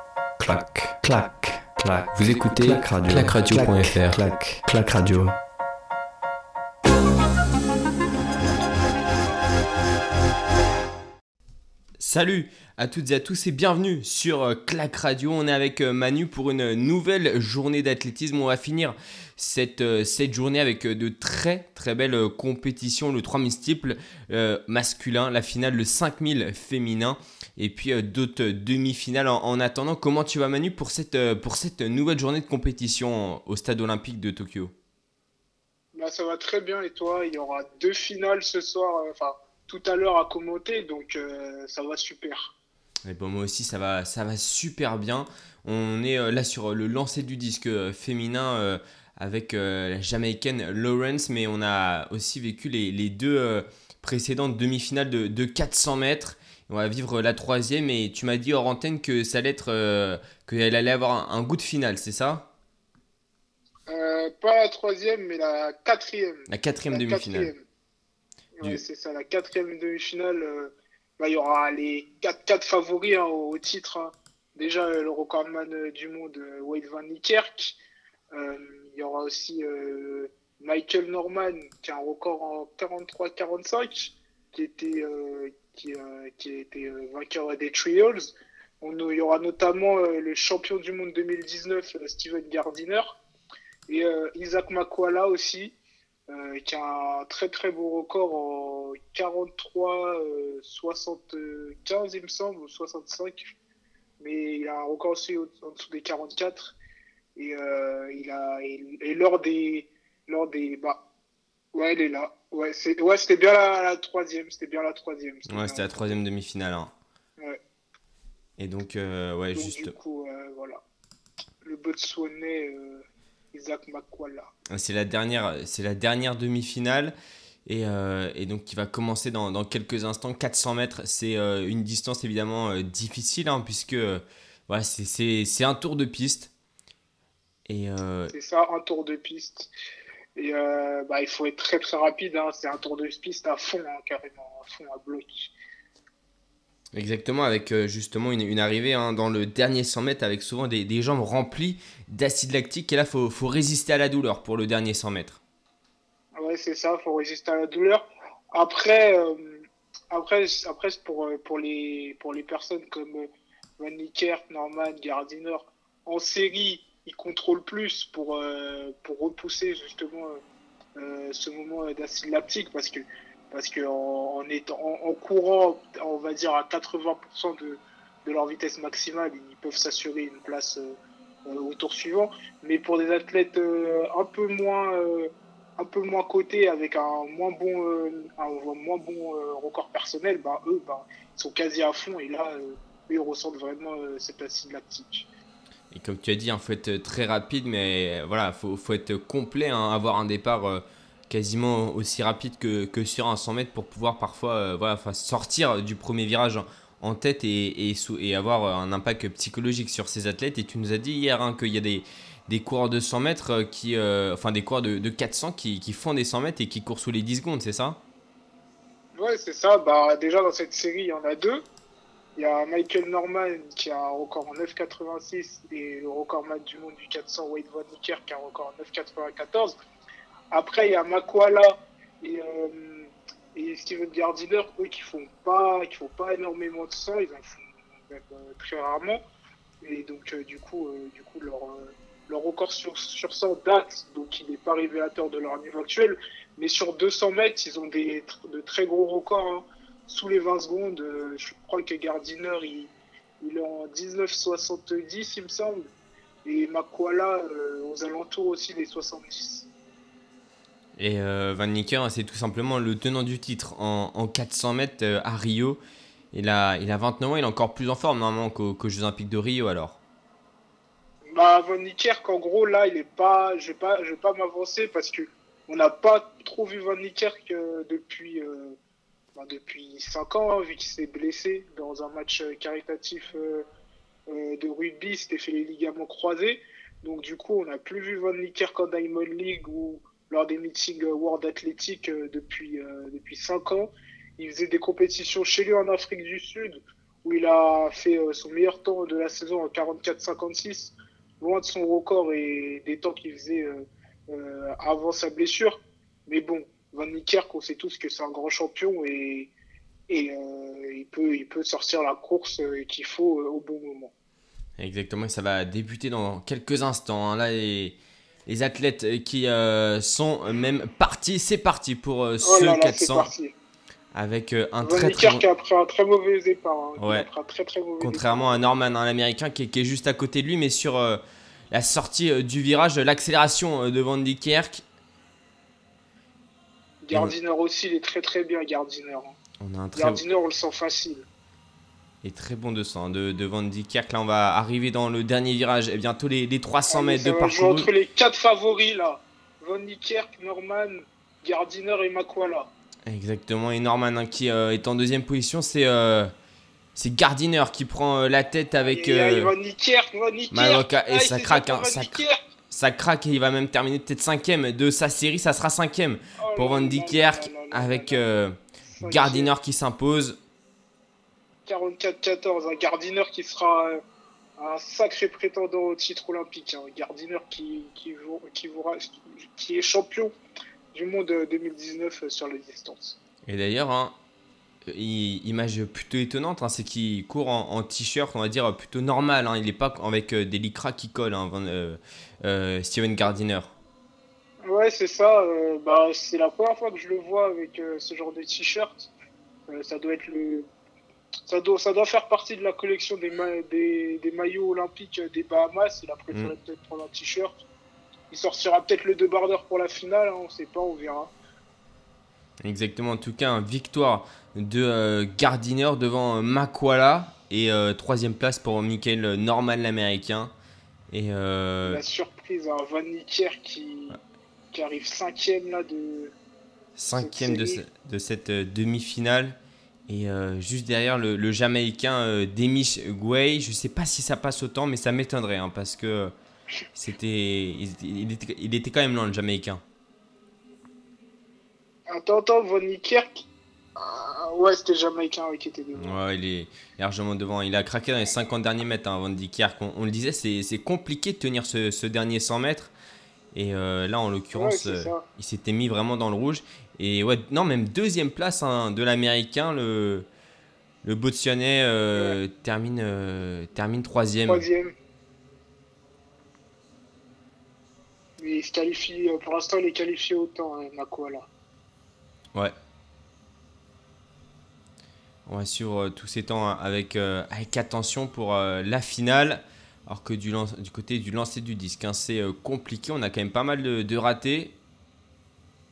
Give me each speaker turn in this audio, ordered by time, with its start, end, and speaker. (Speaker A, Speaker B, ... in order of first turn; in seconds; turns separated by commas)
Speaker A: 0.4-5.3, Speaker B: 2.1-4.2, Speaker B: 12.0-34.7, Speaker C: 35.9-42.5, Speaker B: 43.0-62.5, Speaker C: 63.9-67.6, Speaker B: 66.5-67.5, Speaker C: 68.6-77.8, Speaker C: 78.3-93.2, Speaker C: 93.9-95.7, Speaker C: 96.3-103.5, Speaker C: 104.2-106.7, Speaker C: 107.3-111.0, Speaker C: 111.7-116.2, Speaker B: 115.5-116.9, Speaker B: 118.6-119.9, Speaker C: 119.5-120.8, Speaker C: 121.6-124.5, Speaker B: 124.7-136.5, Speaker B: 137.7-138.3, Speaker C: 138.3-139.7, Speaker C: 140.3-145.5, Speaker B: 146.9-155.4, Speaker C: 156.3-170.4, Speaker C: 170.9-180.9, Speaker C: 181.5-195.3, Speaker B: 195.9-218.0, Speaker C: 219.2-221.6, Speaker C: 222.3-229.7, Speaker C: 230.5-239.2, Speaker C: 239.8-255.9, Speaker C: 256.4-259.7, Speaker B: 261.0-265.8, Speaker B: 266.3-270.0, Speaker C: 271.3-278.8, Speaker C: 279.4-283.6, Speaker C: 284.3-309.5, Speaker C: 310.1-314.1, Speaker B: 314.8-323.3, Speaker C: 322.4-323.5, Speaker B: 324.1-325.4, Speaker C: 324.8-328.9, Speaker B: 327.0-327.3, Speaker B: 328.0-334.8, Speaker C: 337.0-339.4, Speaker B: 339.6-340.2, Speaker C: 339.9-341.3, Speaker B: 342.2-347.9, Speaker C: 346.9-352.7, Speaker B: 353.1-356.3, Speaker B: 356.9-359.5, Speaker C: 358.9-362.4, Speaker B: 360.5-370.4, Speaker C: 366.4-368.2, Speaker C: 368.9-369.5, Speaker C: 371.6-374.0, Speaker C: 374.6-380.3, Speaker C: 380.9-383.2, Speaker B: 383.4-384.1, Speaker B: 384.9-393.7, Speaker C: 394.6-399.1, Speaker C: 399.7-400.7, Speaker C: 401.5-407.6, Speaker C: 408.3-411.3, Speaker B: 412.6-420.5, Speaker B: 421.1-422.0, Speaker C: 421.9-424.2, Speaker C: 424.7-426.3, Speaker B: 426.9-429.6, Speaker C: 427.1-427.8, Speaker B: 430.1-436.3, Speaker B: 436.9-439.8, Speaker C: 442.1-446.2, Speaker B: 446.0-452.9, Speaker B: 453.5-460.3, Speaker C: 454.5-455.2, Speaker B: 461.0-464.6, Speaker C: 464.5-464.9, Speaker C: 468.4-471.5, Speaker B: 475.4-484.8